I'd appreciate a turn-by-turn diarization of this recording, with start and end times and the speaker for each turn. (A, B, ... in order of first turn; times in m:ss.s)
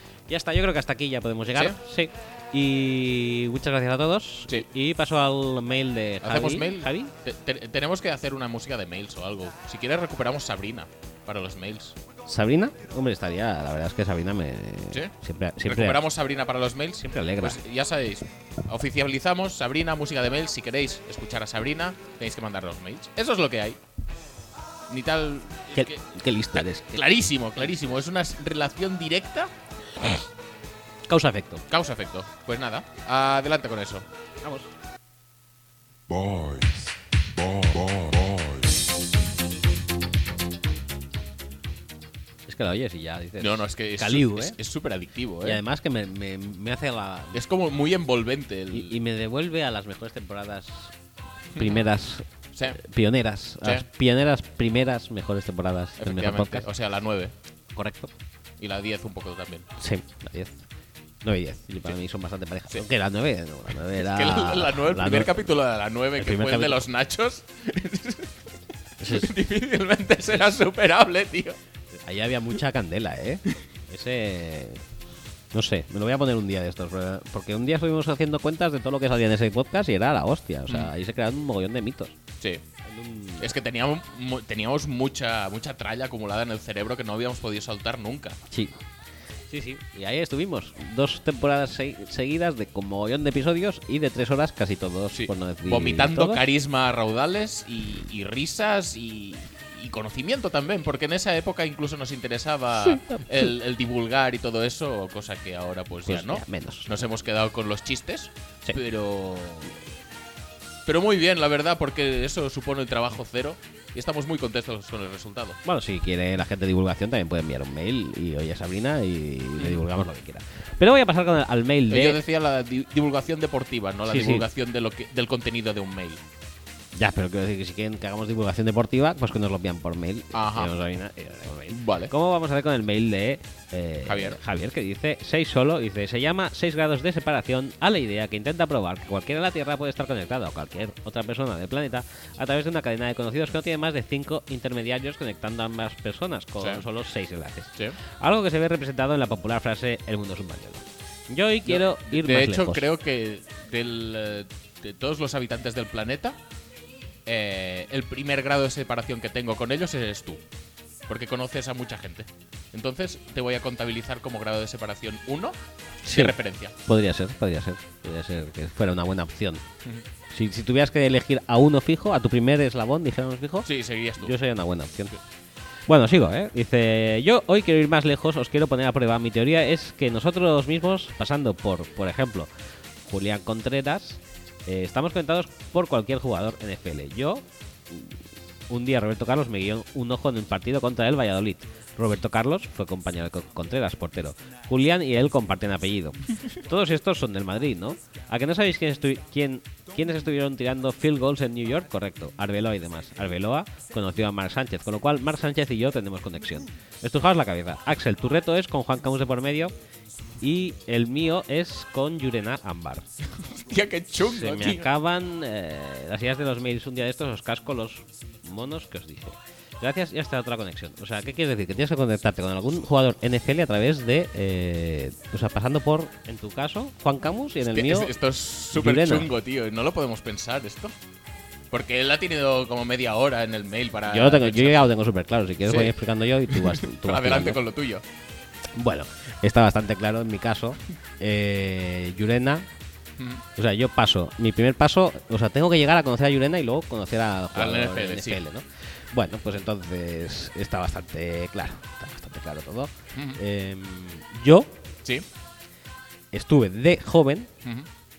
0:00.3-0:07.1 A
0:01.5-0:01.8 B
0:06.2-0:12.0 B
0:12.3-0:16.0 A
0:15.6-0:23.8 B
0:17.0-0:17.6 A
0:24.9-0:26.0 B
0:25.7-0:28.0 A
0:26.6-0:29.5 B
0:31.1-0:31.6 A
0:31.7-0:34.0 B
0:34.4-0:34.7 A
0:36.1-0:38.8 C
0:42.5-0:44.6 A
0:43.4-0:45.6 B
0:45.4-0:47.4 A
0:47.3-0:49.0 B
0:48.7-0:50.9 A
0:51.6-0:56.7 A
0:52.5-0:52.8 B
0:56.0-0:57.3 B
0:57.7-0:58.1 A
0:58.6-0:59.7 B
0:59.8-1:00.6 A
1:01.2-1:05.4 A
1:04.0-1:08.4 B
1:06.2-1:06.9 A
1:09.0-1:09.3 A
1:09.0-1:11.6 B
1:11.9-1:14.8 A
1:15.5-1:22.2 A
1:22.8-1:23.5 A
1:23.4-1:28.4 B
1:28.5-1:28.8 A
1:29.5-1:36.4 A
1:35.1-1:49.7 B
1:42.8-1:43.2 A
1:46.1-1:47.0 A
1:50.9-1:55.6 B
1:55.6-2:02.2 A
2:01.9-2:06.2 B
2:04.0-2:04.5 A
2:06.9-2:32.9 A
2:10.3-2:10.7 B
2:11.7-2:12.1 B
2:14.0-2:14.4 B
2:31.7-2:36.4 B
2:37.3-2:40.4 B
2:41.1-2:45.6 B
2:46.0-2:49.6 A
2:46.1-2:46.7 B
2:50.3-2:53.7 A
2:53.6-2:54.4 B
2:54.2-2:55.1 A
2:55.9-3:02.5 A
3:03.1-3:08.2 A
3:08.7-3:29.7 A
3:30.4-3:33.1 A
3:33.4-3:34.9 B
3:34.2-3:48.2 A
3:47.6-3:50.9 B
3:48.7-3:49.3 A
3:51.7-3:54.9 B
3:54.1-3:57.6 A
3:55.6-3:56.0 B
3:56.5-3:58.0 B
3:58.8-4:02.7 A
4:03.2-4:03.4 B
4:03.6-4:14.8 A
4:07.5-4:08.4 B
4:13.2-4:13.4 B
4:16.3-4:17.5 A